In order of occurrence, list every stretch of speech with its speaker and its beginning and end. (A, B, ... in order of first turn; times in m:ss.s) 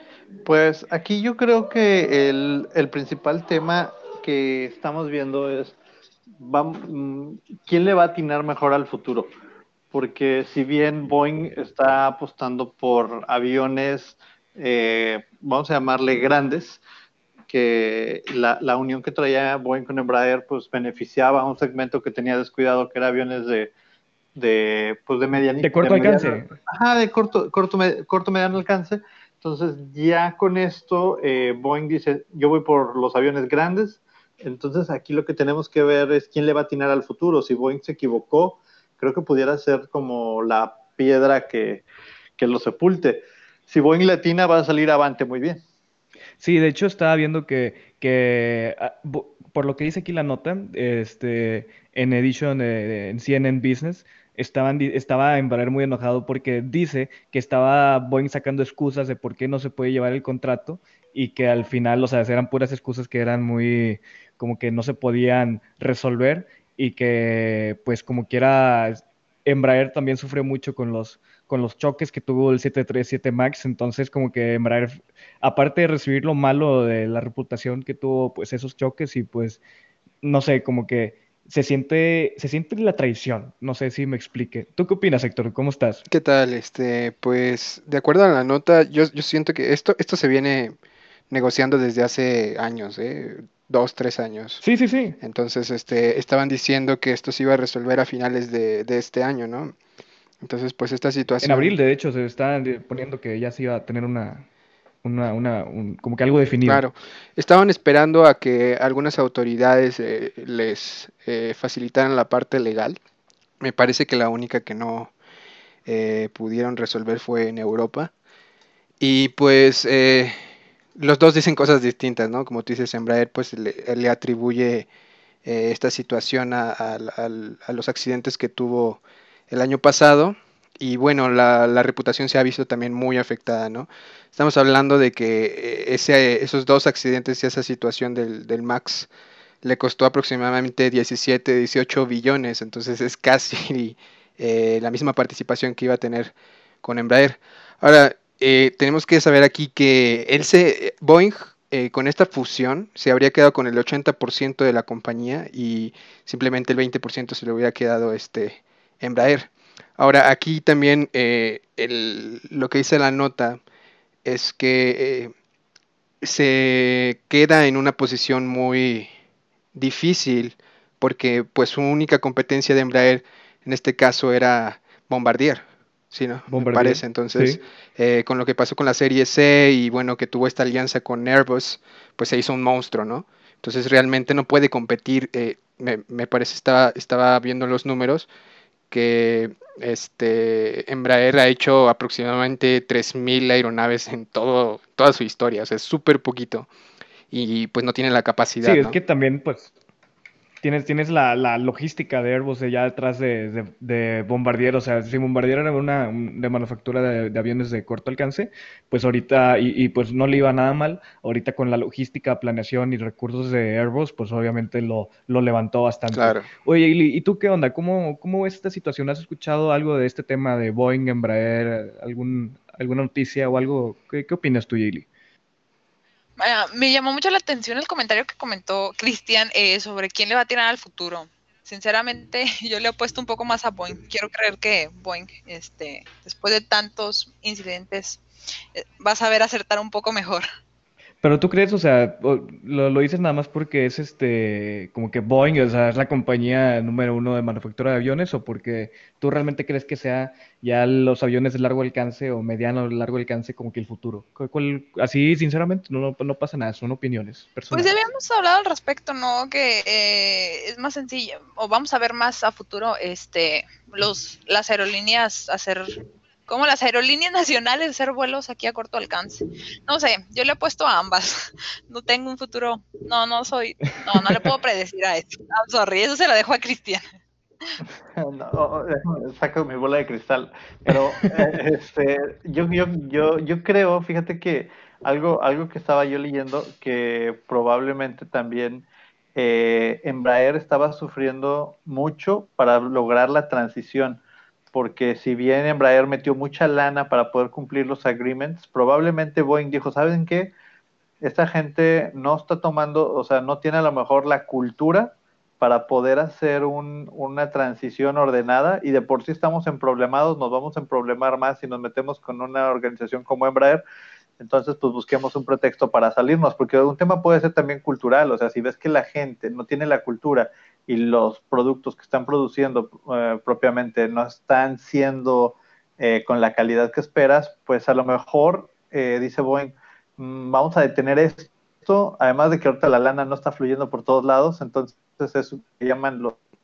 0:00.4-0:05.8 A
0:06.4-0:09.3 A
0:09.9-0:16.8 A
0:17.5-0:23.7 A
0:24.3-0:41.8 A
0:25.6-0:26.5 B
0:42.4-0:45.6 A
0:46.4-1:19.6 B
1:20.2-1:26.0 B
1:26.1-1:30.8 C
1:31.3-1:34.6 C
1:34.6-1:35.2 B
1:35.2-1:39.7 C
1:40.4-1:41.7 C
1:41.4-1:44.4 B
1:45.0-1:46.8 B
1:46.6-1:53.0 C
1:53.6-1:55.1 C
1:55.8-1:58.1 C
1:59.0-2:00.4 C
2:01.0-2:04.9 C
2:05.4-2:19.1 C
2:19.6-2:43.6 C
2:44.2-2:45.3 C
2:46.2-2:49.1 C
2:49.7-3:08.3 C
2:56.5-2:57.6 B
3:08.9-3:16.7 C
3:17.3-3:19.0 C
3:18.6-3:19.7 B
3:20.6-3:45.1 B
3:36.1-3:36.5 C
3:46.4-3:58.2 D
3:58.7-4:00.4 D
4:01.2-4:17.9 B
4:17.7-4:31.4 D
4:31.9-4:37.0 D
4:38.2-4:54.2 A
4:40.9-4:41.2 B
4:54.7-5:00.5 A
5:01.2-5:13.8 A
5:14.4-5:36.4 A